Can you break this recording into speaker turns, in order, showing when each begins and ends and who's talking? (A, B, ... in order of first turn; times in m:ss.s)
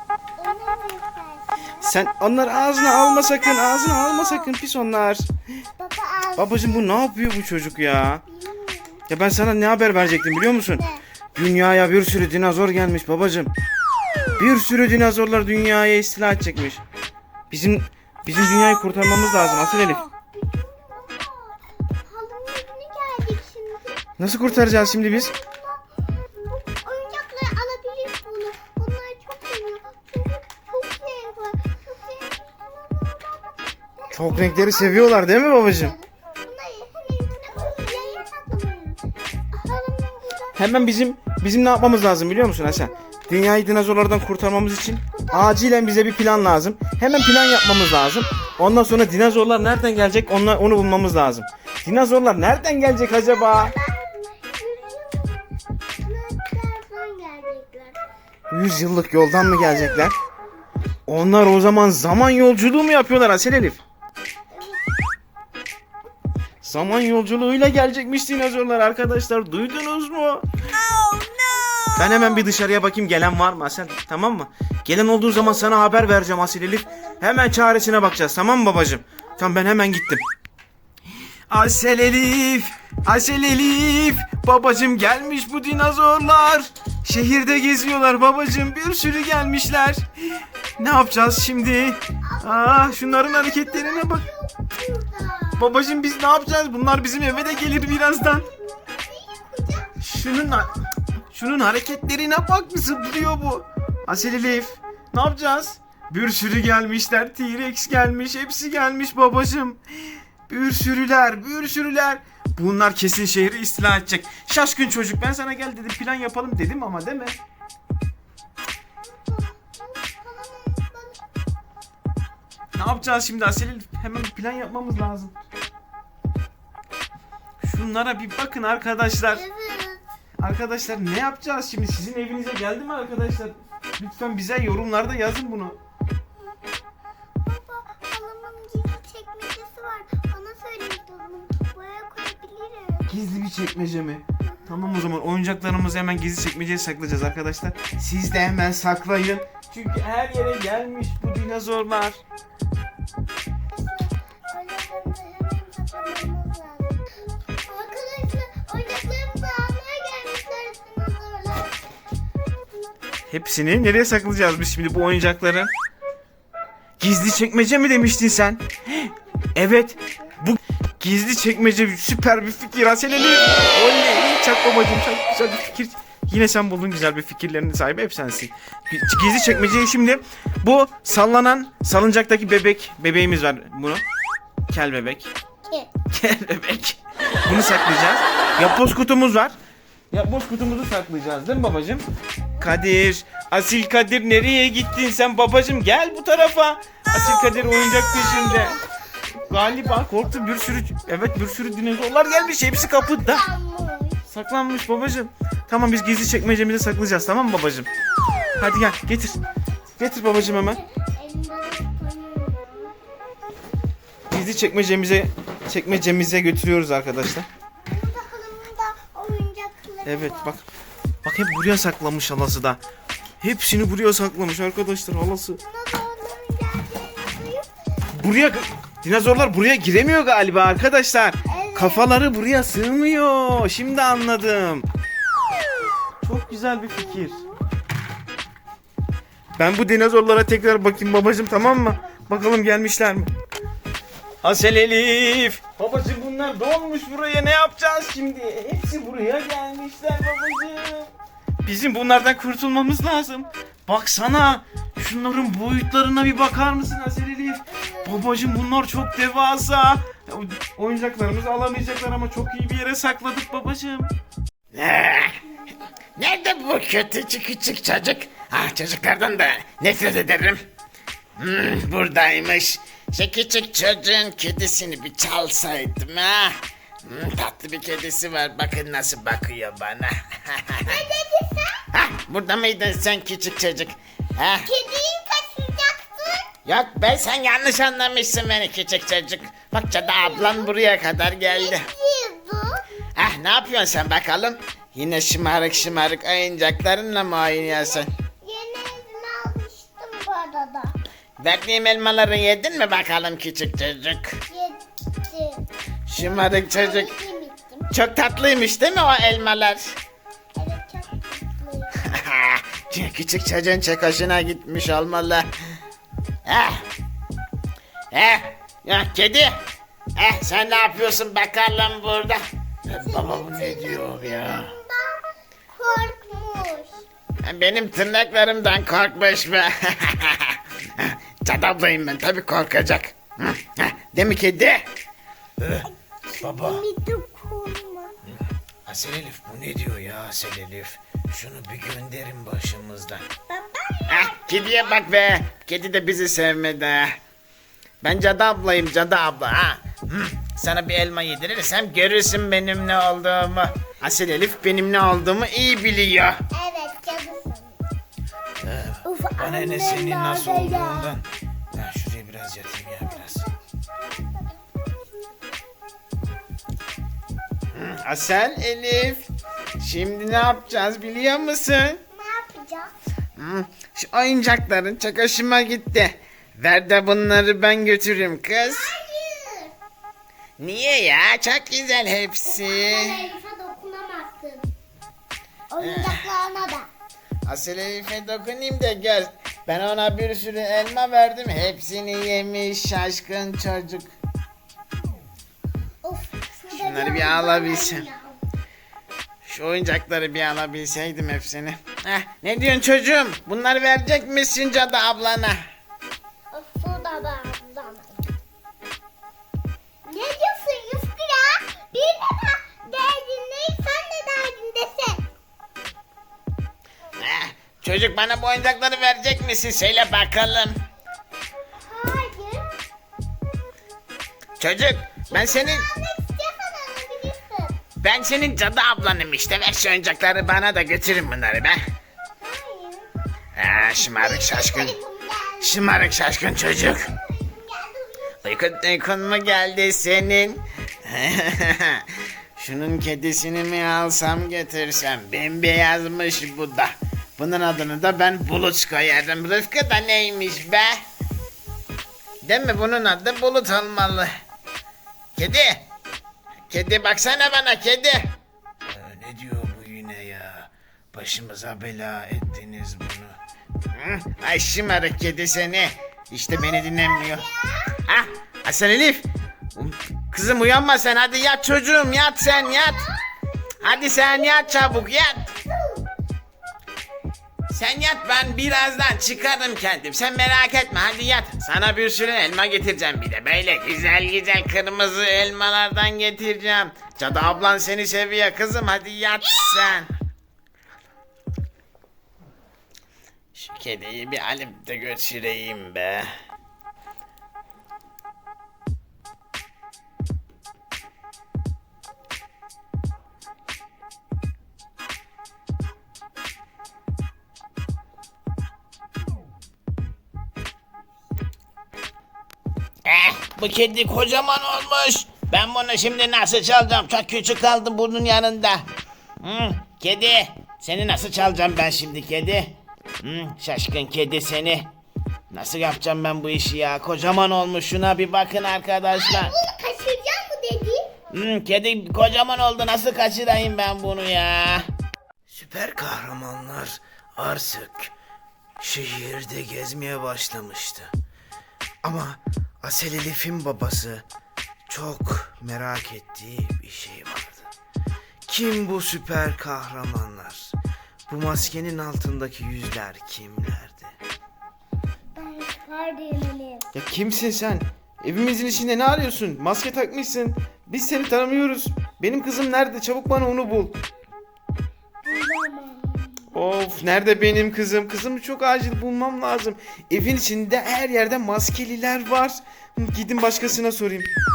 0:00.4-0:01.8 A
0:01.8-0:05.3 B
0:03.2-0:04.2 A
0:05.8-0:06.9 A
0:06.4-0:08.2 B
0:08.3-0:09.0 A
0:09.1-0:10.8 B
0:10.6-0:11.0 A
0:11.3-0:13.5 B
0:14.4-0:16.8 B
0:17.5-0:20.1 B
0:19.3-0:25.8 A
0:24.2-0:25.3 B
0:26.5-0:39.0 A
0:34.1-0:35.9 B
0:39.5-0:40.8 A
0:40.6-0:53.8 B
0:42.5-0:43.2 A
0:45.1-0:45.8 A
0:47.1-0:48.7 A
0:53.3-0:58.0 A
0:58.5-1:00.2 B
0:59.6-1:00.1 A
1:01.1-1:03.8 B
1:04.5-1:05.0 A
1:06.6-1:10.4 B
1:11.9-1:20.2 B
1:16.9-1:18.2 A
1:21.5-1:30.0 B
1:30.8-1:34.2 B
1:32.3-1:35.8 A
1:35.6-1:38.4 B
1:37.4-1:40.0 A
1:40.0-1:49.8 B
1:50.5-1:57.4 B
1:59.0-2:01.2 A
2:02.7-2:05.4 B
2:07.6-2:09.4 B
2:09.3-2:10.0 A
2:10.4-2:15.8 B
2:17.4-2:23.1 A
2:23.1-2:32.2 B
2:24.5-2:25.0 A
2:33.7-2:37.0 A
2:37.7-2:41.7 A
2:43.3-2:45.7 B
2:47.0-3:04.0 B
3:04.7-3:05.3 B
3:06.1-3:09.6 B
3:10.1-3:12.0 B
3:12.6-3:18.8 B
3:17.8-3:18.8 A
3:19.4-3:23.4 B
3:19.4-3:20.9 A
3:22.0-3:24.2 A
3:24.3-3:27.9 B
3:28.6-3:29.4 B
3:30.0-3:30.8 B
3:30.2-3:32.9 A
3:34.3-3:37.5 B
3:37.9-3:40.6 A
3:40.0-3:40.6 B
3:41.2-3:42.8 B
3:43.4-3:45.6 B
3:45.6-3:47.7 A
3:48.1-3:54.8 B
3:51.5-3:52.2 A
3:56.2-3:57.4 B
3:57.0-3:57.5 A
3:59.6-4:03.3 B
4:04.4-4:11.1 B
4:11.6-4:24.1 B
4:24.7-4:25.4 C
4:26.2-4:30.6 C
4:31.4-4:41.0 C
4:40.8-4:41.8 A
4:41.9-4:44.7 C
4:44.6-4:46.5 A
4:46.6-4:51.9 C
4:50.0-4:50.8 A
4:51.4-4:52.8 A
4:53.2-4:58.1 C
4:57.5-5:01.0 A
5:01.4-5:04.4 C
5:04.5-5:07.9 A
5:06.1-5:07.1 C
5:07.9-5:09.9 C
5:10.6-5:12.2 A
5:12.0-5:15.5 C
5:16.4-5:16.8 C
5:18.1-5:19.6 C
5:20.2-5:24.7 C
5:23.0-5:25.2 A
5:25.7-5:27.0 A
5:27.4-5:34.9 C
5:35.6-5:35.9 C
5:36.3-5:38.1 A
5:36.4-5:36.8 C
5:38.3-5:43.2 C
5:43.5-5:45.0 A
5:44.1-5:47.2 C
5:48.0-5:56.4 C
5:56.5-5:57.8 A
5:58.6-6:03.4 C
5:59.0-6:01.2 A
6:03.0-6:04.9 A
6:07.7-6:09.2 C
6:09.8-6:12.0 C
6:12.1-6:12.9 A
6:13.4-6:19.0 C
6:18.6-6:19.7 A
6:20.6-6:23.2 C
6:22.4-6:24.7 A
6:25.7-6:26.9 A
6:25.8-6:26.3 C
6:27.4-6:34.1 C
6:36.0-6:38.4 A
6:36.7-6:38.1 C
6:39.4-6:45.6 C
6:46.5-6:48.3 A
6:50.0-6:55.2 A
6:57.2-7:00.8 C
7:01.8-7:02.7 A
7:04.6-7:05.9 C
7:05.3-7:07.8 A
7:08.0-7:11.8 C
7:12.4-7:13.1 A
7:13.6-7:15.0 C
7:14.0-7:15.9 A
7:15.6-7:17.1 C
7:16.7-7:18.5 A
7:18.4-7:31.0 C
7:32.4-7:34.3 C
7:35.3-7:35.9 C
7:36.7-7:38.3 C
7:38.8-7:43.4 C
7:43.9-7:47.4 C
7:46.5-7:47.9 A
7:48.0-7:53.1 C
7:52.4-7:53.2 A
7:53.8-7:55.5 C
7:53.8-7:56.1 A
7:57.7-8:10.1 C
8:13.5-8:16.3 C
8:33.0-8:38.8 C
8:39.4-8:44.9 C
8:45.5-8:49.5 C
8:49.1-8:51.1 A
8:51.3-8:54.9 C
8:55.5-8:58.1 B
8:58.8-9:01.1 B
9:02.0-9:04.2 B
9:04.9-9:07.7 B
9:08.5-9:10.7 B
9:11.3-9:14.1 B
9:15.3-9:16.9 A
9:16.9-9:24.0 B
9:25.2-9:26.7 A
9:26.5-9:34.3 B